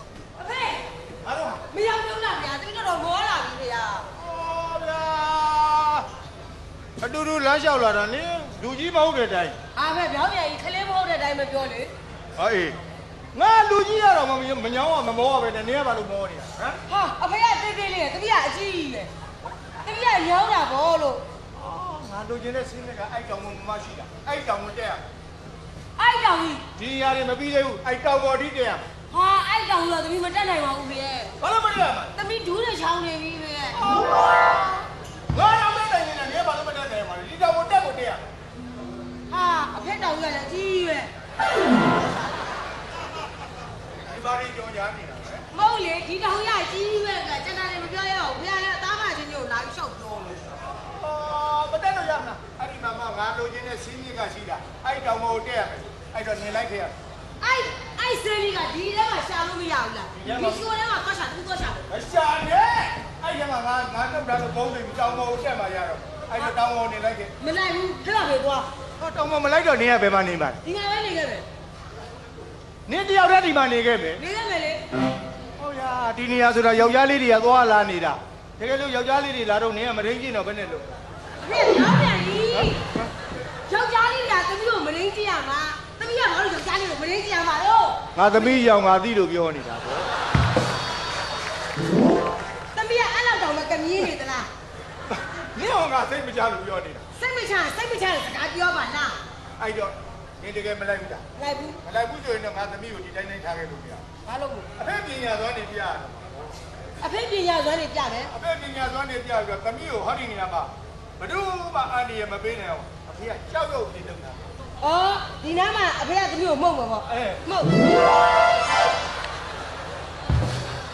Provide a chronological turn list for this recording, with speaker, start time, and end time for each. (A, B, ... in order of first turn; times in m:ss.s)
0:00.4-0:00.8 A
0:01.2-0:01.6 B
0:01.7-0:04.1 A
0:04.2-0:06.0 B
0:07.0-0:09.6 B
0:09.8-0:11.9 A
0:12.4-0:12.8 B
0:13.3-0:16.8 B
0:16.9-0:19.1 A
0:19.8-0:21.2 A
0:21.6-0:25.0 B
0:26.0-0:26.6 A
0:26.8-0:28.9 B
0:29.1-0:31.3 A
0:31.4-0:32.1 B
0:32.1-0:33.8 A
0:33.7-0:38.3 B
0:39.3-0:41.1 A
0:44.0-0:45.4 B
0:45.5-0:50.5 A
0:50.8-0:56.9 B
0:57.4-1:01.9 A
1:00.1-1:00.6 B
1:01.9-1:07.3 B
1:07.4-1:08.7 A
1:09.0-1:10.6 B
1:10.6-1:11.4 A
1:12.9-1:14.2 B
1:14.2-1:14.8 A
1:15.6-1:20.9 B
1:21.4-1:22.8 A
1:23.7-1:28.0 A
1:28.1-1:30.1 B
1:32.7-1:34.5 A
1:35.1-1:37.0 B
1:37.2-1:39.2 A
1:39.6-1:41.2 B
1:41.4-1:41.8 A
1:41.8-1:44.0 B
1:44.2-1:44.7 A
1:44.8-1:46.4 B
1:47.0-1:48.3 A
1:48.3-1:54.4 B
1:54.8-1:57.7 A
1:57.1-1:57.4 B